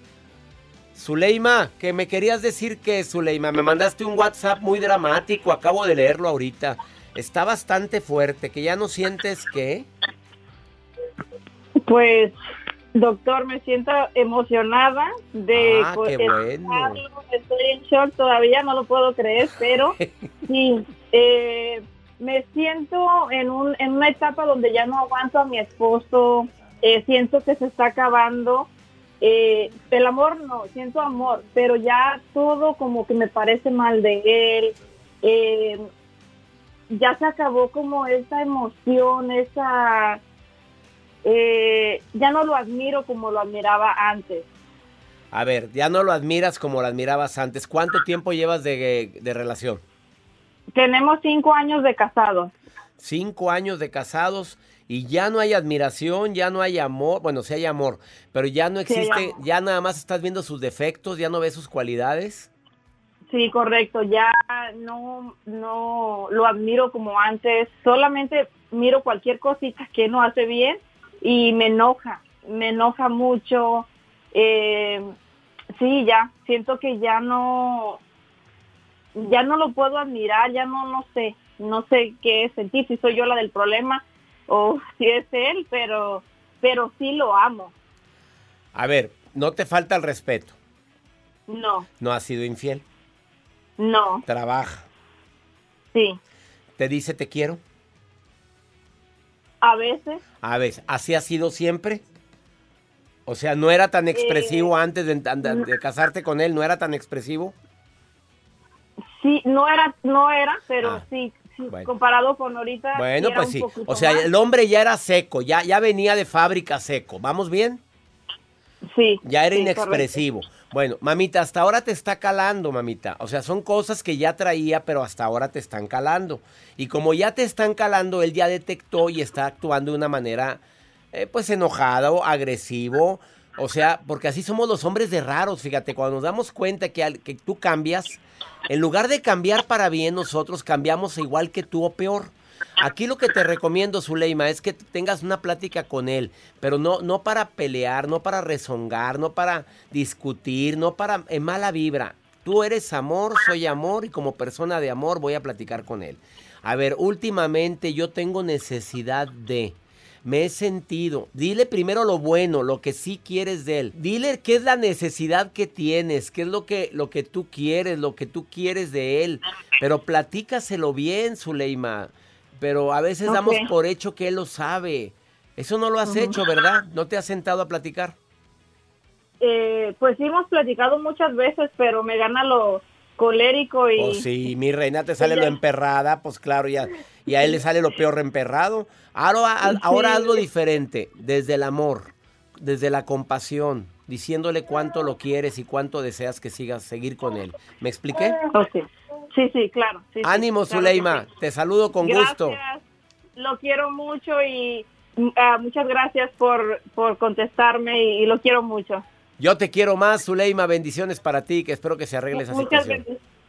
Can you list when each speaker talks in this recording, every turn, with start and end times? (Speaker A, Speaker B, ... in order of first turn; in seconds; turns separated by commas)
Speaker A: 0.9-9.9, Speaker B: 11.8-12.4, Speaker B: 12.9-28.7, Speaker A: 15.5-17.0, Speaker B: 29.2-35.8, Speaker B: 36.9-40.2, Speaker B: 41.2-44.5, Speaker A: 45.3-49.8, Speaker B: 50.7-52.5, Speaker A: 53.0-62.5, Speaker B: 58.9-59.4, Speaker B: 63.3-75.1, Speaker B: 75.7-78.0, Speaker B: 79.1-87.7, Speaker A: 88.7-90.5, Speaker B: 91.5-91.9, Speaker A: 92.0-92.8, Speaker B: 93.8-94.2, Speaker A: 94.3-94.9, Speaker B: 95.9-96.2, Speaker A: 96.8-97.6, Speaker B: 99.6-100.2, Speaker A: 100.4-102.0, Speaker A: 103.2-107.5, Speaker B: 104.1-104.7, Speaker B: 109.2-114.3, Speaker A: 112.9-117.8, Speaker B: 118.9-120.2, Speaker A: 119.2-130.6, Speaker A: 131.1-178.2, Speaker B: 173.2-173.7, Speaker B: 176.1-176.4, Speaker B: 179.4-184.2, Speaker A: 183.9-198.4, Speaker B: 185.2-185.5, Speaker B: 189.7-190.3, Speaker B: 198.3-201.2, Speaker A: 200.2-202.6, Speaker B: 202.0-202.8, Speaker B: 203.3-209.0, Speaker A: 209.4-213.0, Speaker B: 212.3-213.2